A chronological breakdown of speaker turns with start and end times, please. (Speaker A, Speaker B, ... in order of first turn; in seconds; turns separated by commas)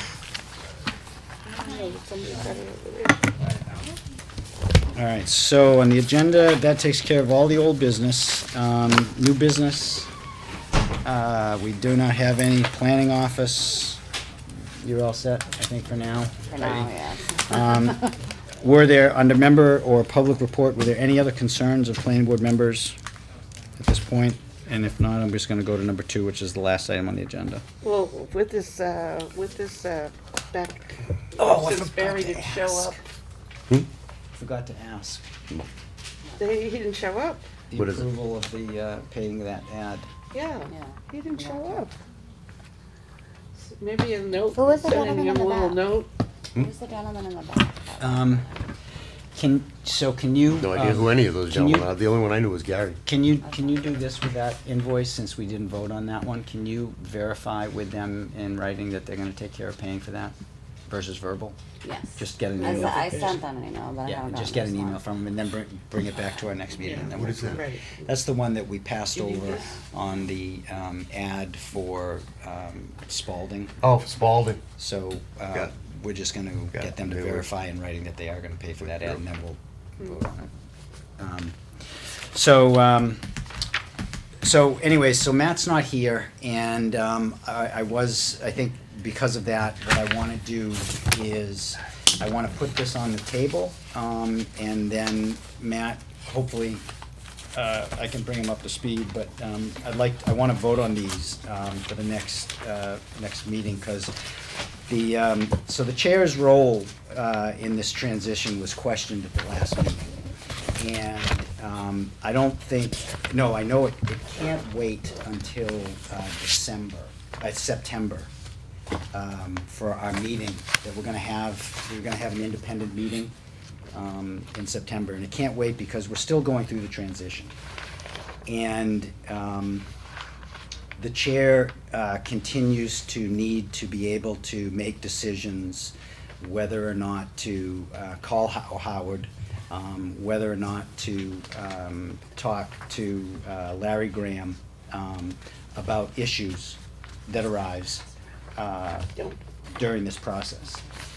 Speaker A: 1.5-3.4, Speaker B: 4.9-10.1, Speaker B: 11.0-14.0, Speaker B: 14.8-23.0, Speaker C: 16.5-17.6, Speaker B: 23.8-27.6, Speaker A: 27.8-33.0, Speaker B: 31.4-33.0, Speaker B: 34.3-35.2, Speaker A: 36.4-37.4, Speaker B: 37.7-40.1, Speaker D: 37.7-38.1, Speaker A: 40.3-41.9, Speaker C: 40.7-41.7, Speaker A: 43.7-46.1, Speaker C: 44.6-45.9, Speaker C: 46.6-48.2, Speaker B: 48.0-48.5, Speaker B: 49.4-51.9, Speaker D: 50.5-53.0, Speaker B: 53.0-60.4, Speaker B: 60.9-61.6, Speaker C: 61.8-65.0, Speaker B: 62.2-63.2, Speaker A: 62.6-63.3, Speaker B: 64.0-73.8, Speaker A: 66.8-67.9, Speaker D: 67.1-67.7, Speaker D: 73.8-74.6, Speaker B: 74.8-80.5, Speaker D: 76.7-77.5, Speaker D: 78.8-79.2, Speaker B: 81.2-81.6, Speaker B: 82.3-83.2, Speaker B: 84.4-96.8, Speaker B: 97.5-104.1, Speaker B: 104.9-110.1, Speaker B: 110.8-118.3, Speaker B: 119.1-123.3, Speaker B: 123.9-127.5, Speaker B: 128.5-129.9, Speaker B: 131.0-148.1, Speaker B: 148.6-149.1, Speaker B: 149.8-150.8